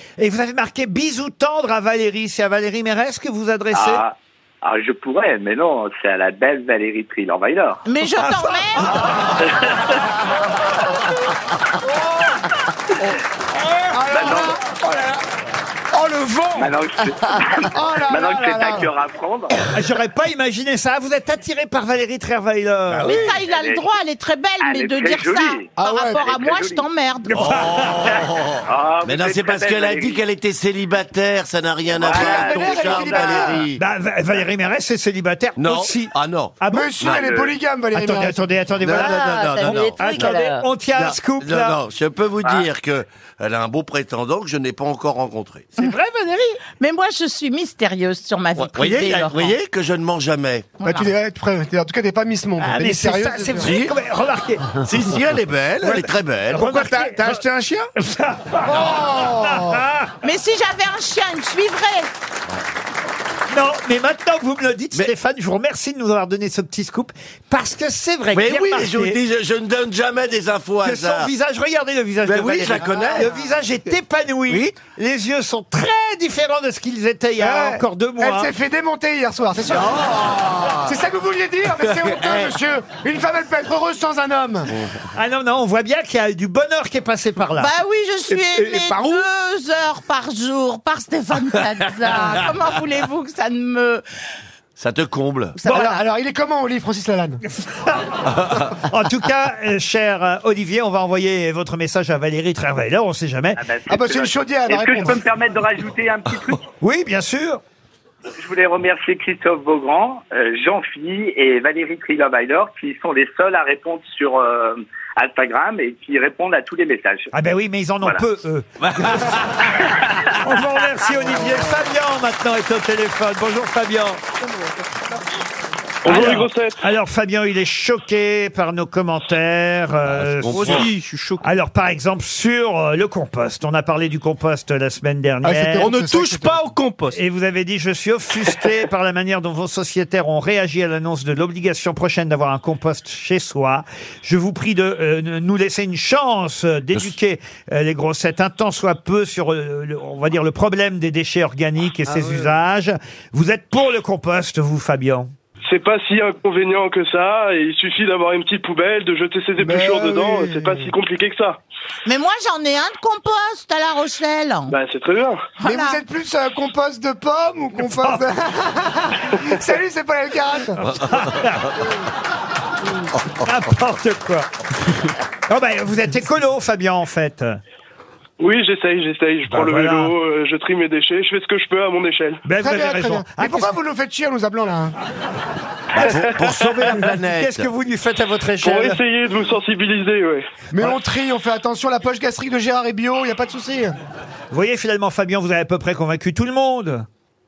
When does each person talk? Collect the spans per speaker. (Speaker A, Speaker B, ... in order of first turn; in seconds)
Speaker A: 0.2-4.0, 8.2-9.1, 19.7-23.1, 27.3-27.9, 33.8-36.9, 37.9-39.2, 39.9-41.7, 45.8-46.6, 52.6-54.7, 55.8-57.4, 58.0-60.1, 63.5-69.1, 70.8-78.5, 85.2-87.7, 97.5-103.6, 106.8-107.6, 117.3-119.2, 120.4-124.2, 126.1-130.5, 131.4-135.8, 137.1-155.3, 167.9-168.2, 171.1-171.6, 173.5-174.5, 175.5-177.5, 179.5-179.9, 182.5-183.7, 187.4-188.9, 194.5-197.1
Speaker B: 3.7-7.8, 9.3-9.8, 14.1-14.6, 16.6-19.5, 23.4-23.9, 24.6-25.7, 26.2-26.8, 28.1-30.2, 31.9-33.7, 37.0-37.5, 103.5-106.6, 108.3-117.3
Speaker C: 7.8-8.9, 23.1-27.4, 39.0-40.7, 46.6-49.6, 50.8-51.1, 60.2-62.1, 87.5-94.0, 95.5-96.0, 162.1-164.8, 165.6-166.0
Speaker D: 13.9-15.0, 15.9-16.7, 17.7-18.9, 25.8-26.2, 32.0-33.7, 36.7-38.5, 50.9-53.9, 56.5-57.9, 58.6-59.8, 77.4-80.1, 80.8-84.7, 88.3-89.2, 95.7-97.4, 103.9-105.2, 135.4-136.6, 152.1-152.5, 159.6-160.6, 165.7-170.9, 182.6-184.9, 190.7-193.9
Speaker E: 27.3-33.8, 35.6-37.3, 38.8-40.3, 40.9-45.7, 48.6-50.8, 53.6-53.9, 54.8-56.7, 68.3-71.3, 72.2-73.3, 74.5-74.8, 79.6-81.0, 81.8-82.6, 94.8-95.6, 130.0-130.9, 170.9-171.3, 173.2-173.4, 185.9-187.7
Speaker F: 126.0-126.8, 155.7-161.6, 164.7-165.5, 178.4-182.4, 186.1-187.2, 188.6-191.0
Speaker G: 130.4-131.5, 135.8-137.2